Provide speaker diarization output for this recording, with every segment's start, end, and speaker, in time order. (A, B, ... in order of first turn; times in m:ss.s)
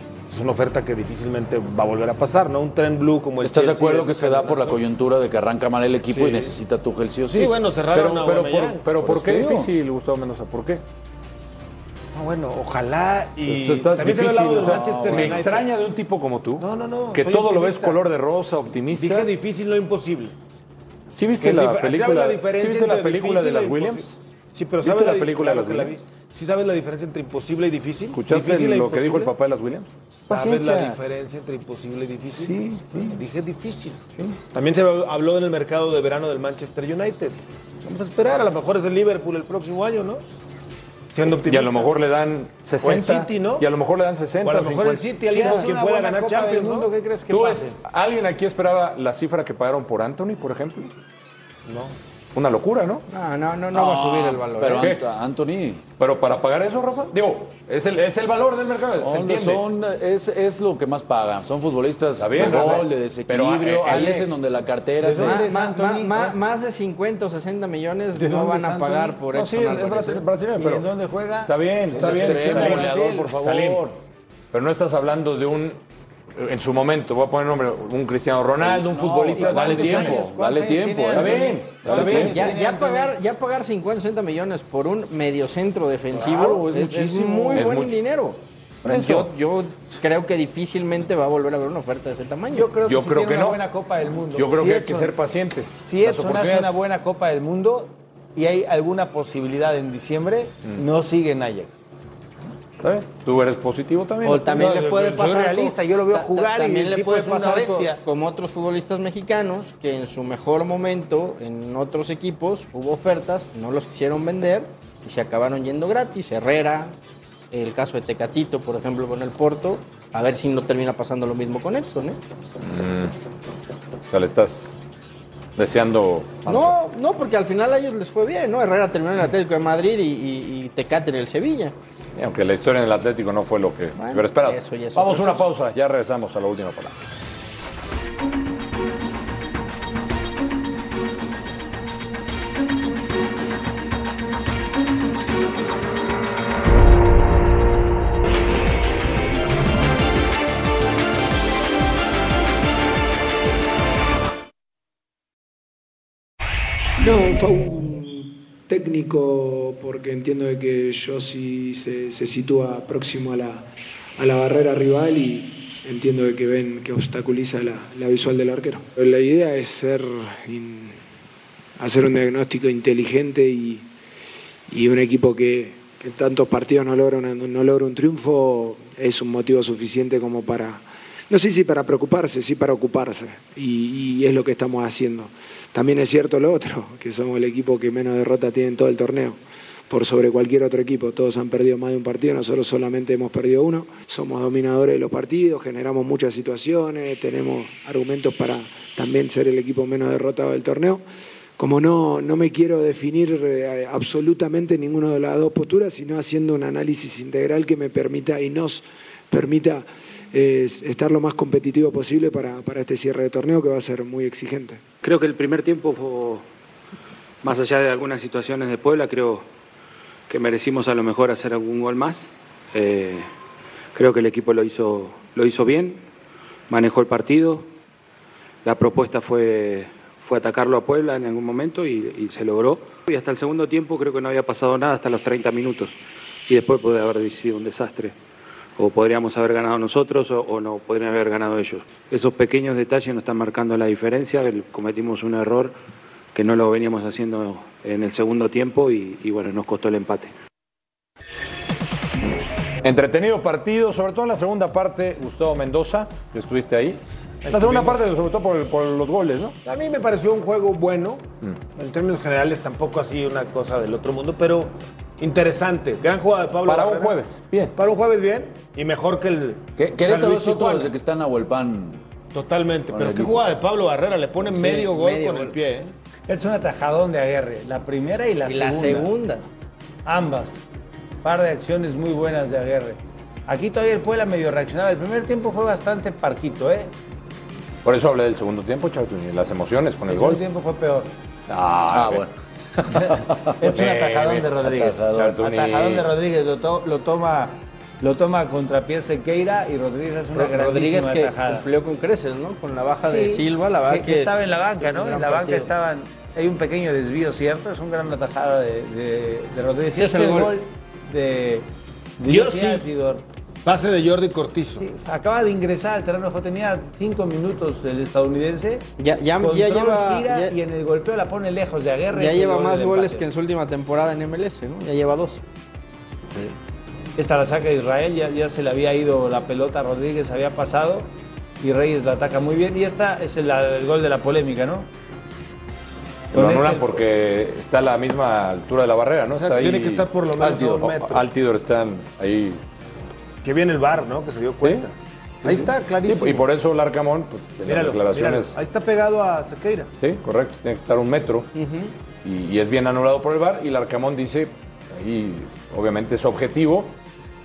0:00.3-0:04.8 A
0:03.4-0:07.5 B
0:06.1-0:06.6 A
0:07.3-0:08.8 A
0:07.9-0:10.8 C
0:09.0-0:09.7 B
0:12.1-0:15.7 A
0:13.5-0:19.3 C
0:14.6-0:15.5 B
0:16.6-0:18.0 A
0:18.9-0:20.4 A
0:21.2-0:24.2 C
0:21.4-0:29.3 A
0:24.8-0:25.9 C
0:28.1-0:31.0 C
0:30.3-0:40.2 A
0:32.4-0:33.2 C
0:41.1-0:42.0 A
0:41.4-0:45.7 C
0:42.8-0:43.7 A
0:44.4-0:46.9 A
0:45.2-0:47.8 D
0:47.3-0:50.9 C
0:51.7-0:52.0 A
0:52.4-0:53.0 C
0:53.1-0:55.0 E
0:53.7-0:55.8 B
0:56.0-0:59.7 C
0:59.0-1:05.4 B
1:02.2-1:04.3 C
1:03.9-1:04.3 D
1:05.0-1:06.4 D
1:05.2-1:10.3 E
1:08.2-1:09.2 D
1:09.3-1:10.9 C
1:10.6-1:13.4 D
1:11.4-1:13.9 C
1:11.9-1:13.9 B
1:14.5-1:15.8 C
1:16.4-1:20.2 C
1:18.6-1:22.4 B
1:19.3-1:23.1 D
1:21.1-1:22.5 C
1:22.3-1:32.7 E
1:26.1-1:27.8 B
1:27.5-1:28.0 C
1:29.0-1:29.3 C
1:32.5-1:35.1 D
1:32.8-1:33.6 C
1:34.3-1:36.8 C
1:35.8-1:41.7 D
1:42.8-1:44.7 C
1:44.2-1:57.0 E
1:44.5-1:48.0 D
1:57.5-2:02.2 E
2:02.6-2:03.1 C
2:04.1-2:04.8 C
2:05.6-2:06.8 C
2:06.4-2:11.8 E
2:12.2-2:17.0 C
2:14.0-2:15.5 E
2:37.0-2:51.0 F
2:51.8-2:53.9 F
2:54.7-3:21.0 F
3:21.6-3:34.8 F
3:35.0-3:36.4 G
3:37.4-3:39.4 G
3:40.3-3:43.3 G
3:44.0-3:46.0 G
3:46.7-3:47.7 G
3:48.6-3:56.0 G
3:56.5-3:58.2 G
3:58.8-4:05.8 G
4:06.3-4:10.3 G
4:12.8-4:19.6 C
4:17.4-4:18.0 A
4:19.6-4:27.2 A
4:26.7-4:27.8 C
4:27.8-4:30.9 A
4:29.8-4:32.0 B
4:32.3-4:35.9 A
4:32.9-4:33.5 B
4:34.4-4:35.6 E
4:36.3-4:39.1 D
4:38.5-4:39.4 E
4:40.1-4:40.6 D
4:41.2-4:46.9 D
4:47.8-4:50.4 C
4:50.1-4:51.1 D
4:51.5-4:52.3 C
4:51.9-4:53.5 B
4:52.9-4:54.6 C
4:53.0-5:01.7 D
4:54.7-4:55.4 B
4:55.1-4:56.1 C
5:00.4-5:05.7 E
5:03.1-5:11.6 D
5:10.0-5:10.5 E
5:12.2-5:13.2 D
5:12.2-5:12.8 A
5:13.6-5:14.9 A
5:14.8-5:23.3 D
5:19.0-5:20.6 E
5:22.1-5:25.4 E
5:27.2-5:31.1 D
5:31.6-5:34.9 D
5:36.3-5:37.0 D
5:36.3-5:40.1 C
5:39.3-5:41.3 A
5:40.4-5:40.9 B
5:40.8-5:42.6 C
5:43.4-5:46.5 A
5:45.5-5:48.5 C
5:47.6-5:49.9 A
5:50.0-5:51.5 C
5:51.6-5:51.9 E
5:52.2-5:56.9 C